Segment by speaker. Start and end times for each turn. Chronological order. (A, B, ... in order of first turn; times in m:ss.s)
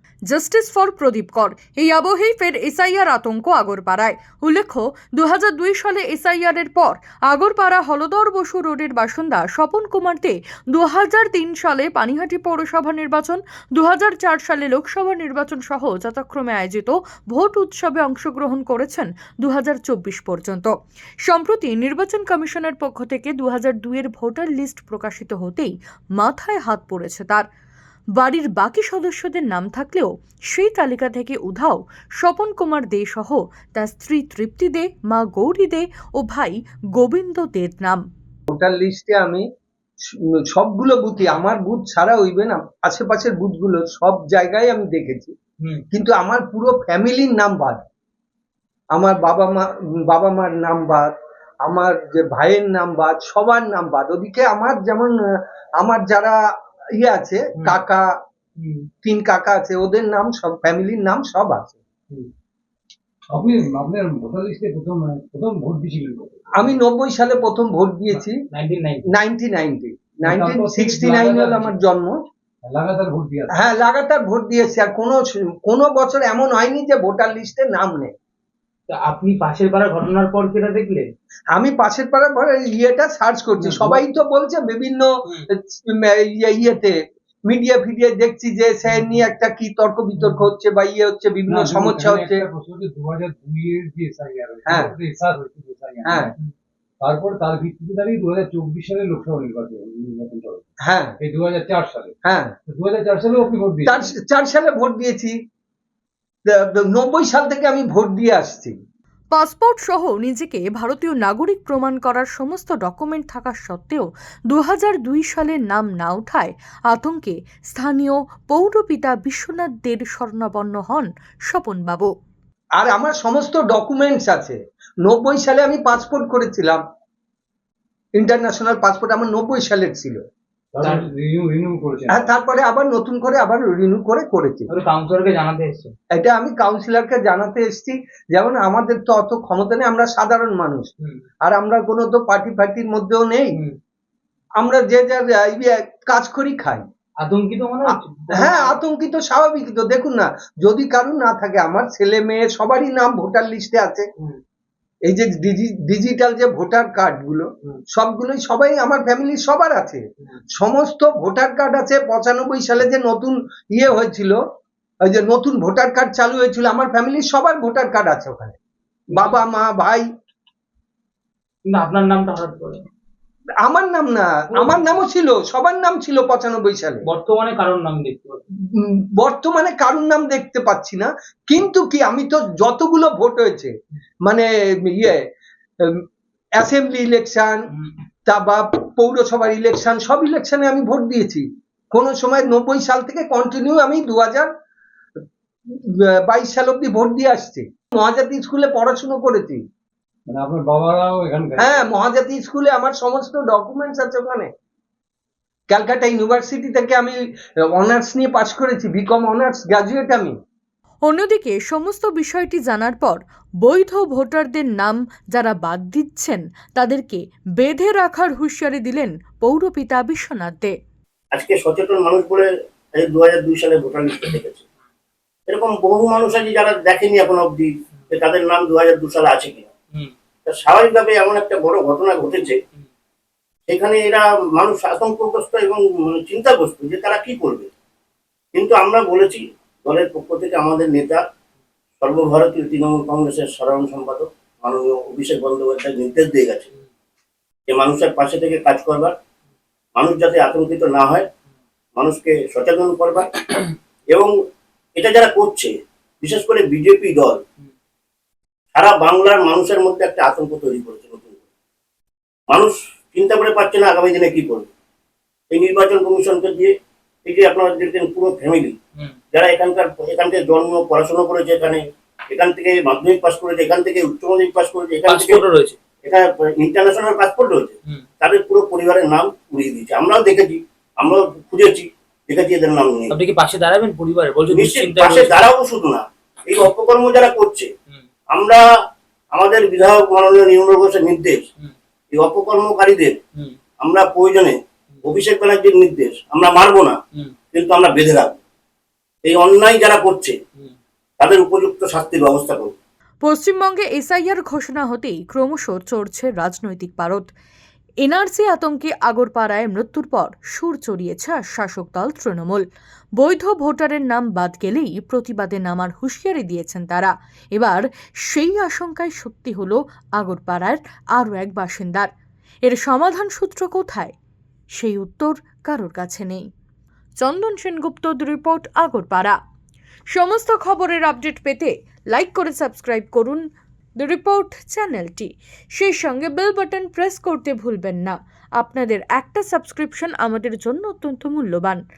0:00.3-0:20.7 A
0:21.2-0:27.4 A
0:28.2-0:38.0 A
0:38.5-0:39.4 B
0:40.3-0:45.3 B
0:45.9-0:47.8 B
0:48.9-0:51.1 B
0:51.7-0:56.4 B
0:57.0-0:58.1 B
0:58.6-0:58.9 C
0:59.0-1:01.8 B
1:03.3-1:06.6 D
1:06.6-1:08.4 B
1:08.5-1:09.0 C
1:09.1-1:12.2 B
1:10.2-1:11.7 D
1:12.6-1:13.6 D
1:13.5-1:18.1 B
1:18.9-1:21.1 C
1:21.5-1:26.9 B
1:23.6-1:24.0 D
1:27.5-1:32.4 B
1:30.2-1:30.5 D
1:31.5-1:36.3 D
1:34.7-1:34.9 B
1:36.0-1:36.3 B
1:37.0-1:40.6 D
1:40.8-1:41.1 B
1:41.2-1:42.1 D
1:42.2-1:42.5 B
1:42.7-1:44.1 D
1:43.8-1:45.4 B
1:46.5-1:48.7 B
1:49.3-2:02.1 A
2:02.8-2:06.8 B
2:08.2-2:10.2 B
2:10.7-2:12.3 D
2:10.8-2:11.1 C
2:12.1-2:14.7 B
2:14.7-2:15.9 C
2:16.1-2:20.9 B
2:21.4-2:23.5 B
2:24.6-2:26.8 B
2:27.2-2:28.8 C
2:28.3-2:34.1 B
2:35.1-2:40.0 B
2:40.5-2:44.4 B
2:45.0-2:48.6 B
2:49.1-2:50.0 B
2:51.7-2:52.8 C
2:53.6-2:57.0 B
2:54.5-2:54.8 C
2:57.0-2:58.4 C
2:58.7-3:03.7 B
3:04.2-3:05.2 B
3:06.6-3:07.6 B
3:08.3-3:14.5 B
3:16.0-3:19.6 B
3:20.3-3:21.9 D
3:21.6-3:24.5 B
3:25.7-3:27.2 B
3:27.7-3:30.3 B
3:31.0-3:40.7 A
3:41.3-3:42.5 E
3:43.0-3:44.6 E
3:45.5-3:49.7 E
3:50.4-3:52.6 E
3:53.7-3:57.7 E
3:58.5-4:01.2 E
4:02.0-4:06.7 E
4:07.7-4:09.2 E
4:10.0-4:11.3 E
4:12.0-4:14.3 E
4:15.0-4:17.4 E
4:18.7-4:21.4 E
4:22.5-4:24.7 E
4:25.5-4:26.7 E
4:27.2-4:28.8 E
4:29.3-4:35.4 E
4:35.0-4:35.8 C
4:36.0-4:43.2 E
4:43.1-4:45.4 C
4:44.5-4:47.7 E
4:48.3-4:48.6 E
4:49.3-4:51.4 E
4:52.1-4:53.2 E
4:53.8-4:57.0 E
4:57.5-4:58.4 E
4:59.2-5:00.4 E
5:01.2-5:02.7 E
5:03.2-5:07.3 A
5:08.0-5:12.6 A
5:13.2-5:22.1 A
5:22.6-5:24.1 A
5:24.8-5:26.5 A
5:27.2-5:29.4 A
5:30.1-5:33.4 A
5:34.0-5:41.8 A